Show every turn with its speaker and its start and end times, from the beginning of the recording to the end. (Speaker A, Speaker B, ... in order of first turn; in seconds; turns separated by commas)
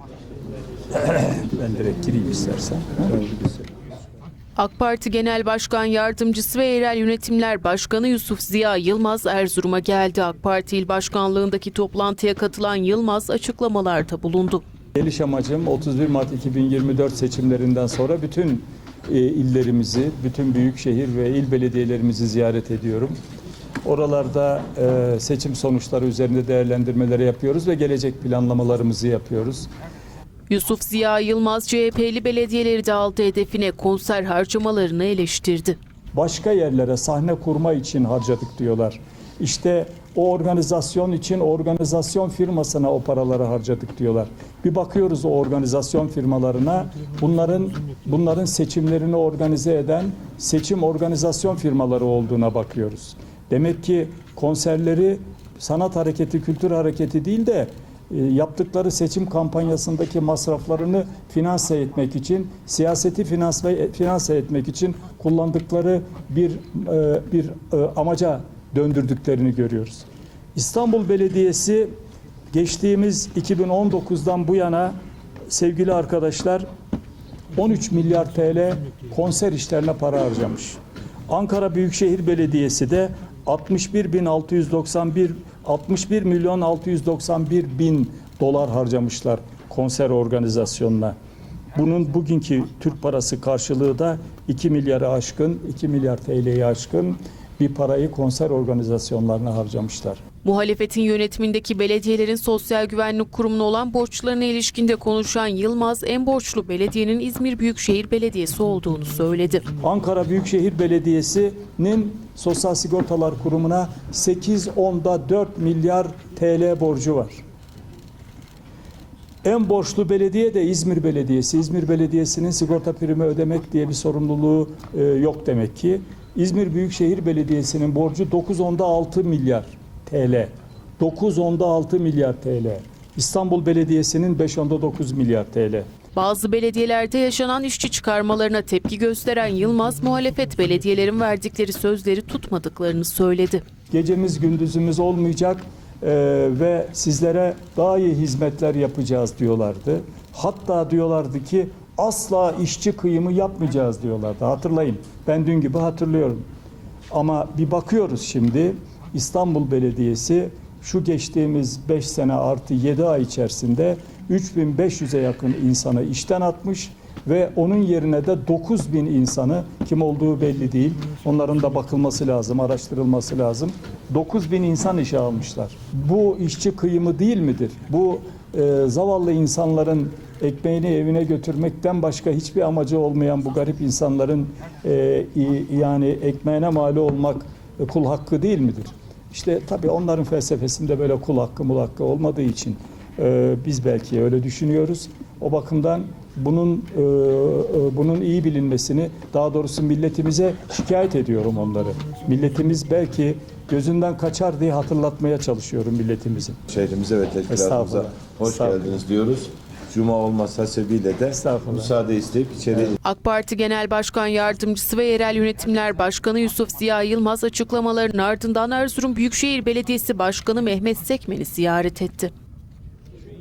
Speaker A: 0.9-3.6, Speaker B: 4.5-14.6, Speaker A: 14.9-23.1, Speaker A: 23.8-29.7, Speaker B: 30.5-35.8, Speaker A: 36.1-71.9, Speaker A: 72.5-75.0, Speaker A: 75.5-76.6, Speaker A: 77.5-91.1, Speaker A: 91.7-100.2, Speaker B: 100.4-109.6, Speaker A: 109.8-117.4, Speaker A: 119.4-135.9, Speaker B: 136.1-143.6, Speaker A: 143.9-156.4, Speaker A: 157.1-206.6, Speaker C: 206.7-212.9, Speaker A: 207.5-208.9, Speaker A: 211.3-211.9, Speaker B: 213.0-222.3